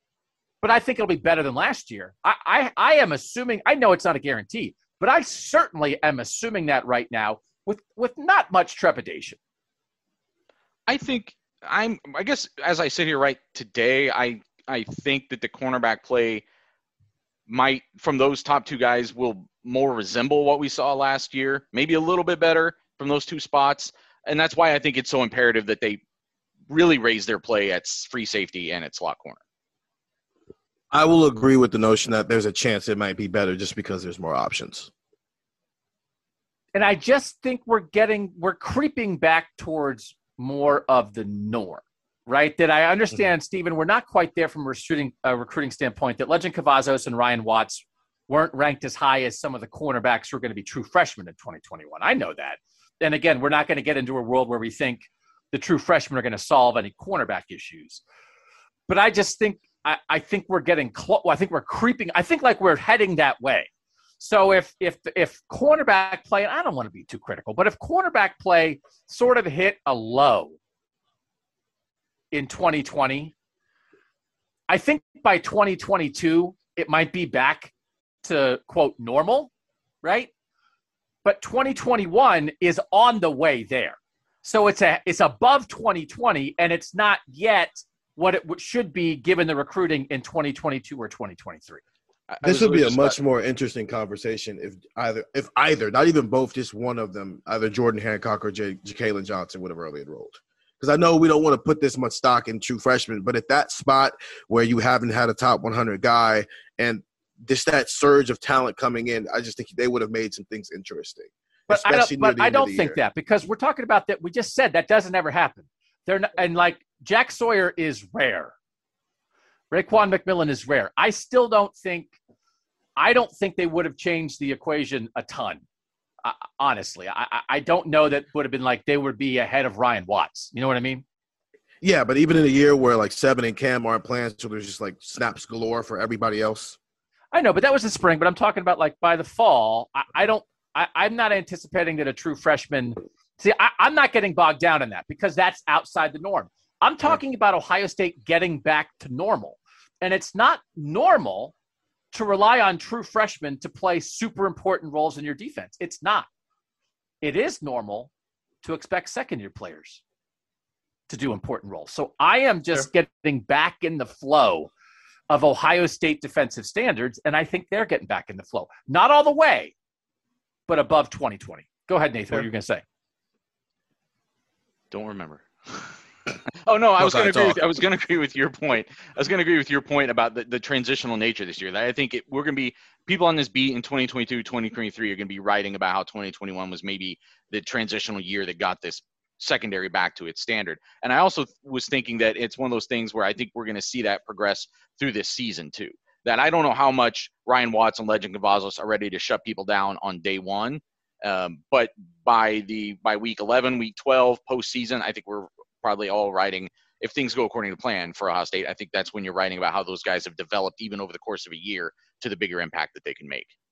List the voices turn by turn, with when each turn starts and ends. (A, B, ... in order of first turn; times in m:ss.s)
0:00.6-0:09.4 A
0:10.9-0:16.4 B
0:17.5-0:26.0 B
0:26.7-0:29.4 B
0:30.9-0:34.9 C
0:36.7-0:58.0 A
0:58.9-1:03.7 A
1:04.2-1:10.6 A
1:12.3-1:13.3 A
1:14.7-1:17.7 A
1:18.2-1:19.5 A
1:20.0-1:20.3 A
1:21.2-1:31.8 A
1:32.3-1:33.2 B
1:32.4-1:53.0 C
1:51.7-1:58.5 A
1:59.7-2:02.1 A
2:03.0-2:05.6 A
2:06.2-2:11.0 A
2:11.8-2:16.8 C
2:17.3-2:31.5 A
2:32.1-2:36.3 A
2:37.2-2:38.1 A
2:38.6-2:40.0 A
2:41.1-2:44.7 A
2:45.3-2:49.7 A
2:50.7-2:52.8 A
2:54.9-2:56.0 B
2:56.6-3:33.5 B
2:57.0-2:57.6 C